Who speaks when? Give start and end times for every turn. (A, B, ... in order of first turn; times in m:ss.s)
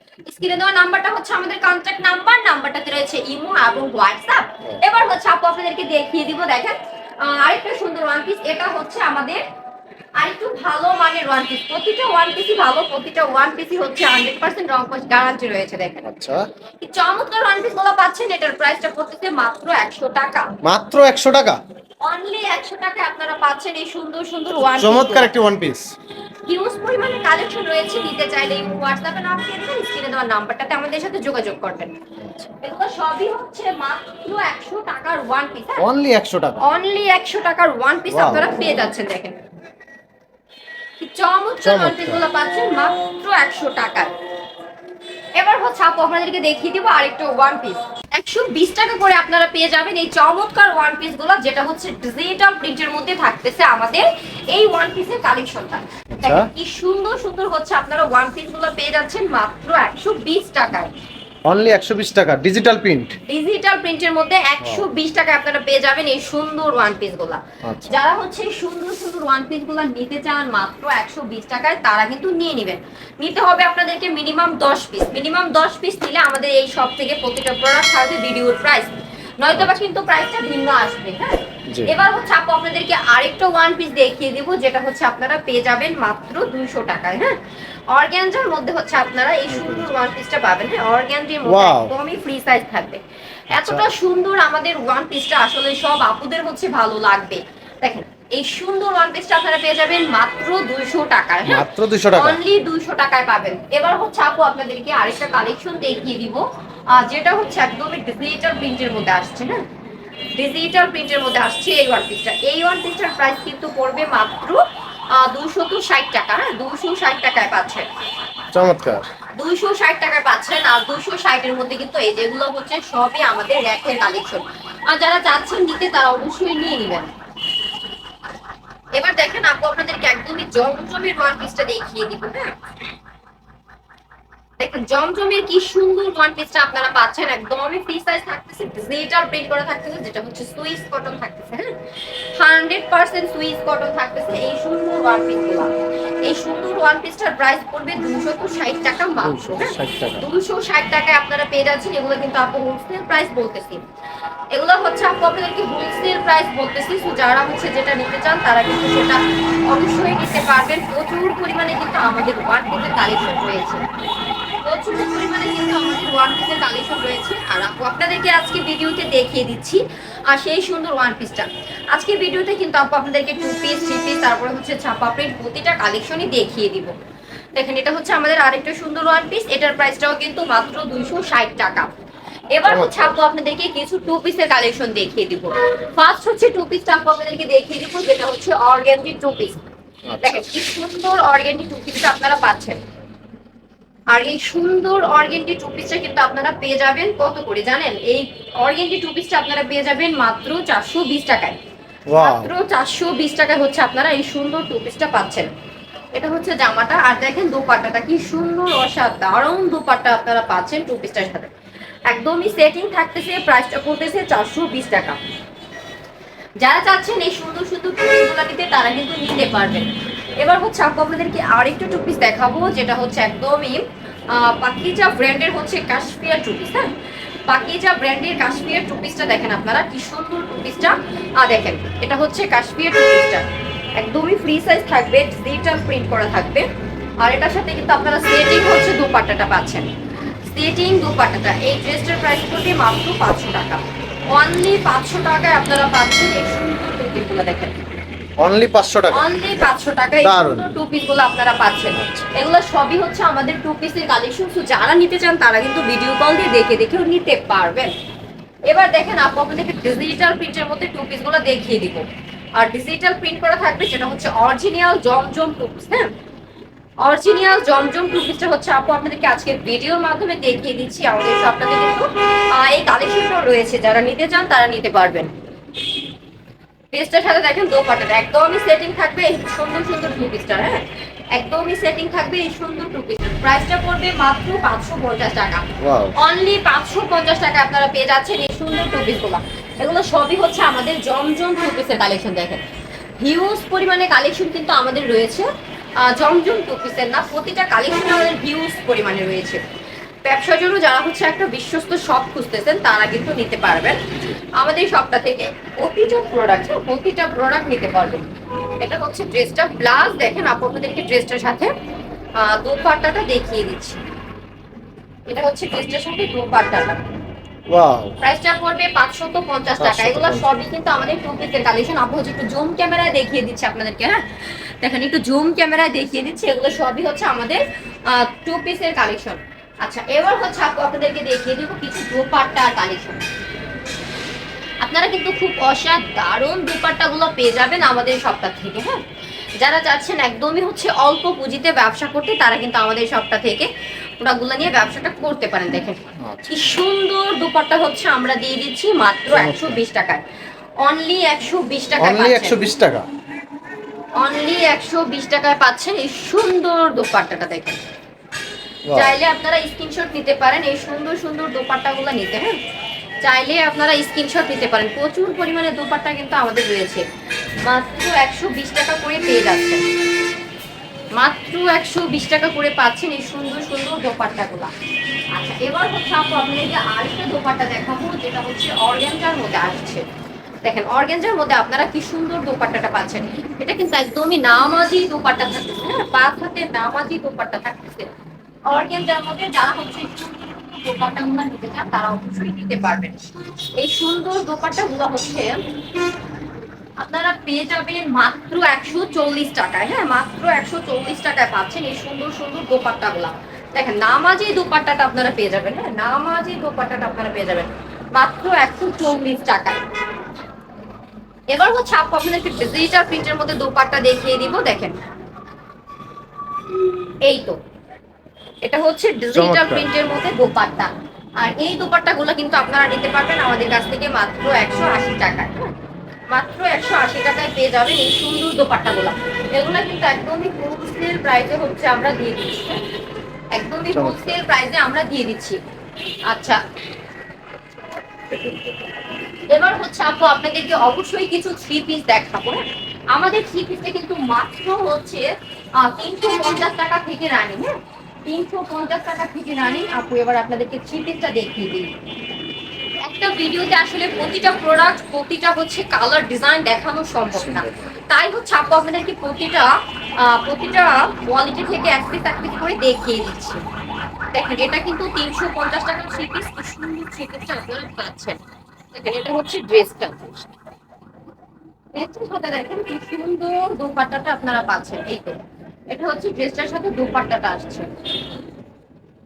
0:00.3-0:09.4 A
0:10.2-0:16.1 A
0:16.0-0:16.4 B
0:16.8-0:20.5 A
0:20.6-0:21.6 B
0:22.0-0:25.3 A
0:24.7-0:25.9 B
0:26.5-0:31.9 A
0:32.2-0:32.5 B
0:32.6-0:35.9 A
0:35.8-0:36.6 B
0:36.6-0:39.4 A
0:38.1-0:38.5 B
0:41.0-0:44.1 A
0:41.6-0:42.2 B
0:45.4-1:00.9 A
0:56.1-0:56.5 B
1:01.5-1:03.2 B
1:03.2-1:27.4 A
1:04.6-1:04.9 B
1:07.6-1:08.0 B
1:19.6-1:19.8 B
1:21.7-1:21.9 B
1:27.9-1:49.6 A
1:29.5-1:29.9 B
1:31.4-1:31.9 B
1:33.6-1:33.9 B
1:41.5-1:42.4 B
1:50.4-1:57.9 A
1:58.5-1:59.1 B
1:59.4-2:07.1 A
2:08.9-2:12.6 A
2:14.6-2:21.8 A
2:22.3-2:25.7 A
2:26.2-2:33.8 A
2:29.2-2:30.3 B
2:34.5-2:43.8 A
2:44.6-2:56.9 A
2:57.6-3:01.9 A
3:02.5-3:09.6 A
3:02.6-3:03.2 B
3:10.1-3:10.5 B
3:10.2-3:12.8 A
3:14.1-3:21.6 A
3:22.1-3:22.5 B
3:22.2-3:25.5 A
3:26.2-3:31.5 A
3:32.1-3:35.2 A
3:36.6-3:46.9 A
3:47.5-3:53.5 A
3:54.0-3:56.7 A
3:57.2-3:59.9 A
4:00.4-4:03.8 A
4:04.3-4:07.8 A
4:08.4-4:09.3 B
4:09.1-4:17.9 A
4:10.2-4:10.7 B
4:12.0-4:12.3 B
4:18.7-4:26.1 A
4:27.0-4:35.3 A
4:36.9-4:52.6 A
4:45.8-4:46.2 B
4:53.2-4:59.6 A
5:00.2-5:04.0 A
5:04.6-5:08.3 A
5:08.8-5:11.7 A
5:12.4-5:14.0 A
5:15.3-5:17.0 A
5:17.7-5:18.2 B
5:18.2-5:24.2 A
5:19.8-5:20.5 B
5:24.8-5:33.2 A
5:34.8-5:39.0 A
5:39.6-5:43.7 A
5:44.2-5:50.2 A
5:46.2-5:46.5 B
5:49.3-5:49.8 B
5:50.8-5:52.6 A
5:52.0-5:53.1 B
5:54.2-5:57.8 A
5:58.9-5:59.2 B
5:58.9-6:02.6 A
6:03.2-6:07.0 A
6:07.6-6:09.8 A
6:11.2-6:14.7 A
6:15.4-6:20.0 A
6:20.6-6:28.1 A
6:28.7-6:33.2 A
6:33.8-6:35.6 A
6:37.0-6:49.8 A
6:51.5-6:55.0 A
6:57.2-6:57.6 A
6:58.6-7:05.7 A
6:59.3-6:59.9 B
7:06.3-7:12.8 A
7:13.5-7:15.6 A
7:13.9-7:14.4 B
7:16.3-7:16.6 A
7:18.4-7:18.7 A
7:19.5-7:31.9 A
7:33.0-7:43.6 A
7:37.4-7:37.8 B
7:44.3-7:48.4 A
7:48.9-7:50.5 A
7:51.9-7:57.9 A